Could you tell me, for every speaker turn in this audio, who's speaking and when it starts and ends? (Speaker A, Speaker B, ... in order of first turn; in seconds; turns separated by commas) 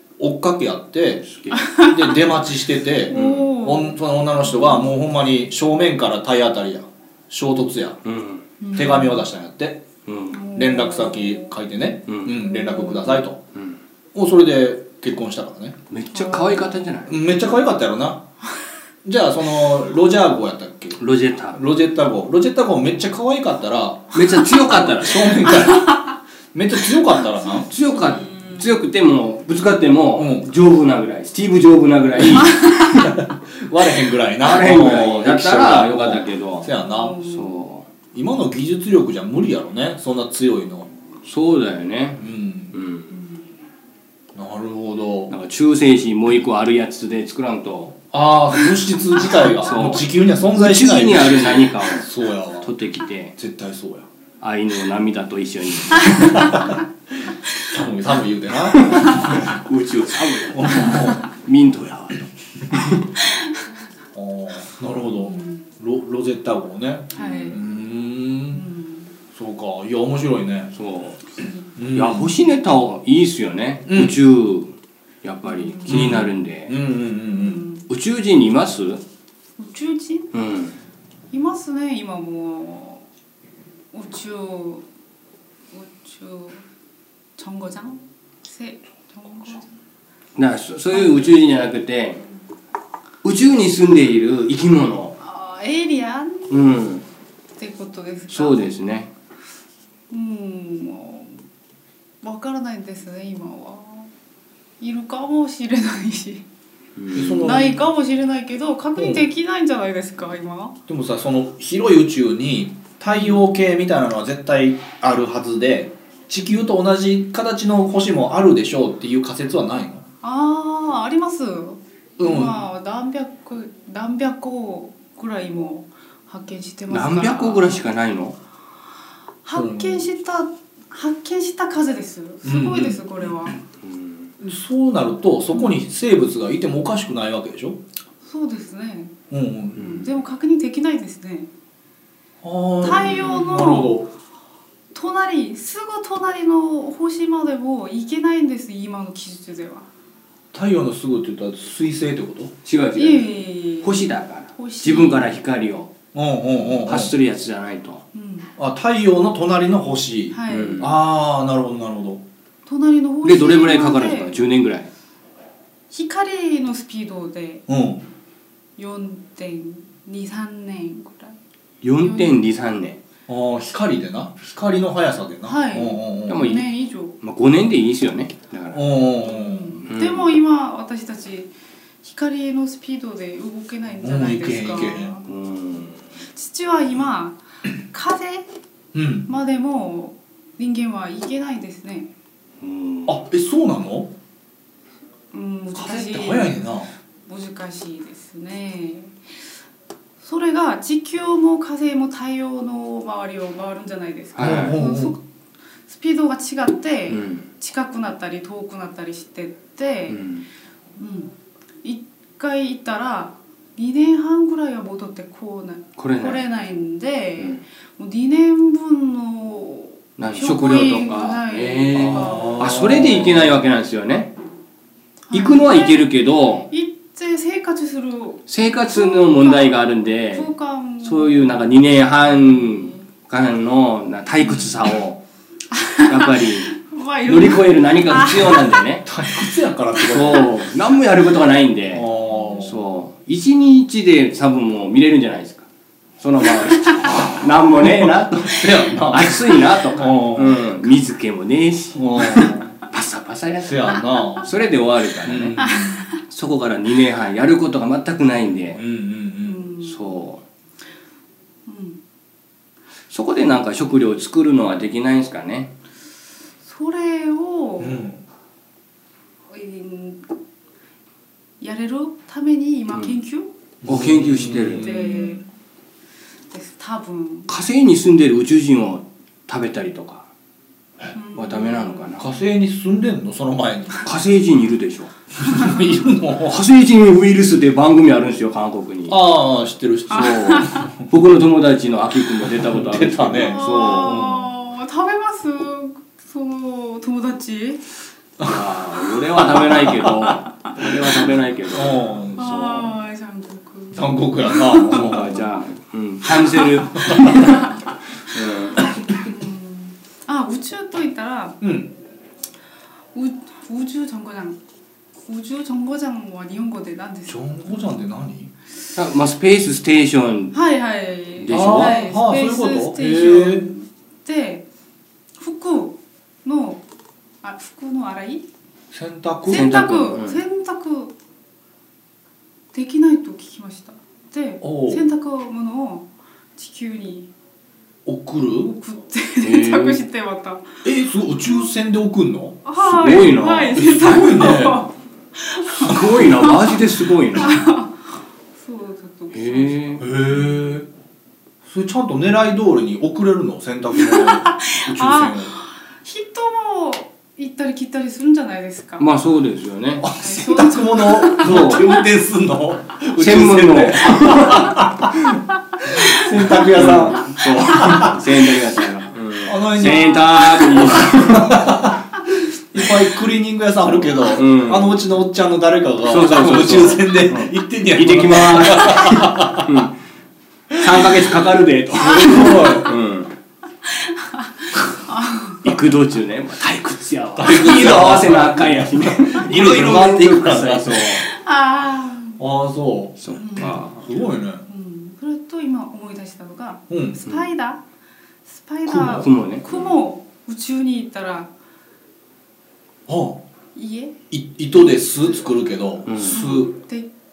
Speaker A: 0.2-8.0, Speaker B: 1.3-1.7, Speaker C: 1.5-2.2, Speaker C: 3.1-4.9, Speaker B: 3.1-3.5, Speaker B: 8.0-8.4, Speaker C: 8.6-9.3, Speaker A: 8.7-9.8, Speaker B: 10.1-10.5, Speaker C: 10.3-11.6, Speaker A: 10.5-13.4, Speaker B: 12.1-12.3, Speaker C: 12.3-13.2, Speaker A: 14.1-15.8, Speaker B: 15.9-17.1, Speaker C: 16.1-16.9, Speaker A: 17.1-18.2, Speaker A: 19.1-21.0, Speaker B: 21.0-21.6, Speaker A: 21.5-27.7, Speaker B: 24.1-25.7, Speaker B: 27.7-33.1, Speaker C: 27.9-28.7, Speaker A: 30.2-30.5, Speaker A: 33.0-37.2, Speaker B: 34.4-37.9, Speaker C: 36.8-37.7, Speaker A: 38.1-40.9, Speaker B: 41.2-43.1, Speaker A: 42.2-42.8, Speaker C: 43.1-43.5, Speaker A: 44.4-45.3, Speaker B: 45.3-48.0, Speaker A: 48.1-52.7, Speaker B: 49.2-53.3, Speaker A: 53.4-54.1, Speaker B: 54.4-56.5, Speaker A: 56.2-56.8, Speaker A: 57.6-59.6, Speaker B: 58.7-63.0, Speaker A: 60.5-61.2, Speaker C: 63.2-63.5, Speaker A: 64.2-68.6, Speaker C: 65.2-65.7, Speaker B: 67.2-67.5, Speaker C: 67.2-67.6, Speaker C: 68.5-69.1, Speaker A: 69.3-70.7, Speaker B: 70.7-71.2, Speaker A: 71.8-72.4, Speaker B: 71.9-74.7, Speaker A: 73.9-74.2, Speaker B: 75.2-76.8, Speaker C: 75.5-76.3, Speaker A: 75.9-77.7, Speaker C: 77.3-77.9, Speaker B: 77.9-79.0, Speaker C: 79.6-80.3, Speaker B: 80.3-80.8, Speaker C: 81.3-83.1, Speaker C: 83.9-84.8, Speaker C: 85.7-86.6, Speaker C: 87.4-89.7, Speaker B: 90.4-92.2, Speaker C: 90.9-91.4, Speaker B: 93.2-95.2, Speaker C: 95.2-96.6, Speaker B: 96.5-97.0, Speaker C: 97.6-98.7, Speaker B: 98.3-99.1, Speaker C: 100.1-101.4, Speaker C: 102.2-104.1, Speaker C: 104.8-106.4, Speaker B: 107.0-107.5, Speaker A: 107.1-107.8, Speaker C: 107.3-110.8, Speaker A: 109.0-109.3, Speaker A: 110.9-120.0, Speaker C: 120.2-127.8, Speaker A: 122.2-122.6, Speaker B: 126.9-128.4, Speaker C: 129.4-133.6, Speaker A: 129.5-130.1, Speaker A: 132.4-133.2, Speaker B: 133.8-134.3, Speaker A: 134.4-137.8, Speaker C: 135.5-135.8, Speaker C: 138.2-139.2, Speaker A: 139.3-140.1, Speaker C: 139.8-141.5, Speaker B: 139.8-140.1, Speaker A: 142.4-144.1, Speaker C: 142.8-144.1, Speaker C: 144.9-149.9, Speaker A: 150.5-152.5, Speaker B: 152.7-155.9, Speaker C: 152.9-155.4, Speaker A: 156.1-157.1, Speaker B: 156.8-158.0, Speaker C: 158.1-158.5, Speaker A: 158.6-162.2, Speaker C: 160.3-160.9, Speaker B: 160.5-161.0, Speaker C: 162.7-164.4, Speaker B: 163.2-164.9, Speaker C: 165.9-167.7, Speaker A: 167.7-168.0, Speaker C: 168.8-171.4, Speaker B: 171.8-173.0, Speaker C: 171.9-172.4, Speaker A: 173.3-176.5, Speaker C: 175.4-177.2, Speaker B: 176.3-178.8, Speaker A: 178.7-179.8, Speaker C: 179.2-181.5, Speaker B: 179.9-180.3, Speaker C: 182.0-185.3, Speaker A: 184.0-185.2, Speaker B: 185.2-186.0, Speaker C: 186.3-188.5, Speaker A: 188.9-189.3, Speaker C: 189.3-192.1, Speaker B: 192.6-193.2, Speaker A: 193.1-194.1, Speaker C: 195.3-196.7, Speaker A: 195.8-196.9, Speaker C: 197.3-199.2, Speaker C: 200.2-205.2, Speaker B: 204.3-204.8, Speaker A: 204.4-205.2, Speaker C: 205.9-210.3, Speaker B: 207.1-207.4, Speaker B: 210.1-210.5, Speaker C: 211.0-222.9, Speaker B: 216.0-216.4, Speaker B: 220.2-224.3, Speaker A: 221.9-223.6, Speaker C: 225.3-233.1, Speaker B: 225.3-226.7, Speaker B: 228.5-235.2, Speaker C: 235.7-238.8, Speaker B: 236.1-239.1, Speaker A: 239.1-240.5, Speaker B: 240.0-245.7, Speaker A: 241.9-242.9, Speaker B: 246.2-255.6, Speaker A: 248.3-250.7, Speaker A: 251.9-252.8, Speaker A: 253.6-254.5, Speaker A: 255.2-256.1, Speaker C: 255.6-256.2, Speaker B: 256.3-258.8, Speaker A: 258.5-259.7, Speaker C: 259.4-260.2, Speaker B: 259.8-260.4, Speaker C: 261.7-262.0, Speaker B: 263.1-265.7, Speaker C: 266.6-268.1, Speaker A: 267.8-268.2, Speaker C: 269.5-270.2, Speaker C: 271.6-273.5, Speaker A: 273.8-275.4, Speaker B: 273.9-274.9, Speaker C: 274.7-275.4, Speaker C: 276.5-277.5, Speaker B: 277.5-280.3, Speaker C: 281.1-282.2, Speaker B: 281.4-282.3, Speaker A: 282.2-284.0, Speaker B: 284.0-285.1, Speaker A: 285.4-286.6, Speaker C: 285.4-286.0, Speaker B: 286.4-289.2, Speaker A: 289.1-290.9, Speaker B: 290.1-294.3, Speaker C: 290.1-290.9, Speaker A: 292.5-294.5, Speaker C: 293.3-297.8, Speaker B: 298.4-302.0, Speaker A: 299.6-300.3, Speaker A: 301.7-302.9, Speaker C: 302.4-305.5, Speaker A: 303.9-305.4, Speaker B: 304.8-308.9, Speaker C: 306.4-307.8, Speaker C: 308.8-311.6, Speaker A: 311.6-311.9, Speaker C: 313.1-314.6, Speaker C: 315.3-317.5, Speaker A: 317.3-318.5, Speaker B: 318.9-320.6, Speaker C: 320.5-324.6, Speaker B: 321.4-322.0, Speaker A: 321.5-323.7, Speaker C: 325.4-326.8, Speaker C: 327.4-328.4, Speaker A: 328.9-329.8, Speaker B: 329.5-330.4, Speaker C: 329.5-331.1, Speaker C: 332.7-337.3, Speaker A: 334.6-335.1, Speaker A: 338.1-338.7, Speaker C: 338.6-340.9, Speaker B: 339.4-340.1, Speaker A: 340.8-342.7, Speaker C: 341.4-341.7, Speaker C: 342.6-350.1, Speaker B: 342.8-343.9, Speaker A: 343.7-344.9, Speaker B: 345.8-347.7, Speaker A: 345.9-346.2, Speaker B: 349.3-350.0, Speaker A: 350.0-350.9, Speaker A: 351.6-355.5, Speaker C: 353.9-359.2, Speaker B: 359.0-360.1, Speaker A: 360.0-365.1, Speaker C: 360.1-361.9, Speaker B: 361.3-362.0, Speaker B: 363.2-364.9, Speaker A: 365.9-368.2, Speaker C: 365.9-366.2, Speaker B: 366.4-371.9, Speaker A: 369.5-372.0, Speaker C: 369.8-371.1, Speaker A: 372.7-379.8, Speaker B: 373.9-375.1, Speaker B: 376.0-379.9, Speaker A: 380.7-381.2, Speaker B: 380.7-383.3, Speaker A: 381.9-383.0, Speaker C: 382.2-382.9, Speaker C: 383.9-385.8, Speaker B: 385.6-391.2, Speaker A: 387.4-391.2, Speaker C: 391.1-392.4, Speaker A: 392.4-394.6, Speaker B: 393.2-394.0, Speaker C: 393.4-393.8, Speaker C: 394.7-397.8, Speaker A: 396.9-397.2, Speaker C: 398.5-401.5, Speaker A: 398.9-399.3, Speaker B: 399.1-399.9, Speaker A: 403.1-403.4, Speaker C: 403.8-404.2, Speaker A: 404.3-406.8, Speaker C: 405.2-405.5, Speaker B: 406.1-406.4, Speaker C: 406.2-407.1